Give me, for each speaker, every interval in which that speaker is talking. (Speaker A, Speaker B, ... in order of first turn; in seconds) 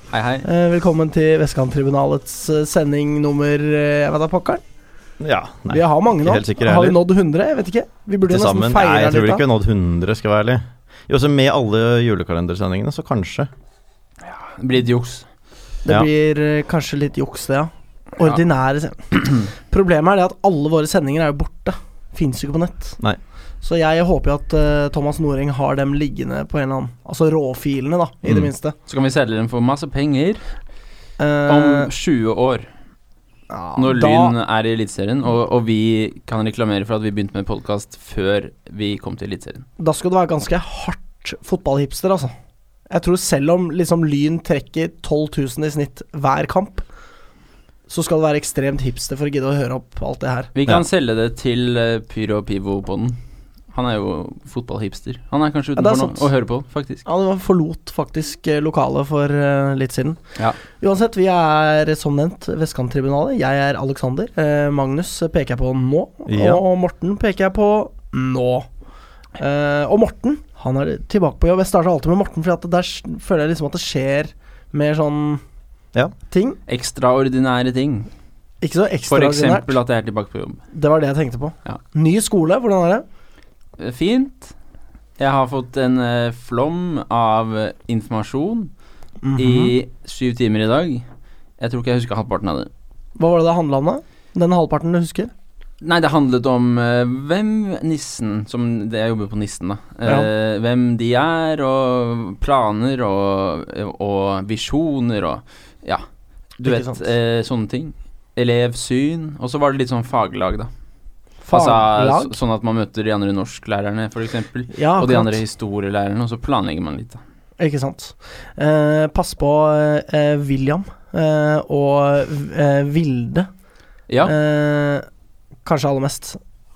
Speaker A: 0.1-0.4, 14.3-15.2, 28.9-30.4, 31.5-32.7, 33.8-39.7, 50.5-53.2, 53.7-57.0, 76.7-78.1, 79.1-80.6, 83.8-84.5, 85.2-88.7, 89.4-91.0, 91.6-92.7, 95.8-106.0, 106.6-110.7, 111.5-117.2
Speaker B: 0.4-4.6, 5.7-9.4, 15.8-23.0, 23.6-28.7, 31.2-31.9, 33.5-34.3, 39.8-42.3, 42.9-46.8, 47.9-50.5, 55.8-56.2, 57.0-60.2, 60.8-68.7, 69.4-75.4, 76.3-76.6, 78.6-79.8, 80.7-83.0, 89.2-89.7, 93.2-95.3, 106.6-107.0, 111.4-112.3, 114.7-115.4, 117.6-123.5, 124.2-125.0, 125.6-126.4
Speaker C: 5.2-7.0, 8.2-13.5, 66.3-66.6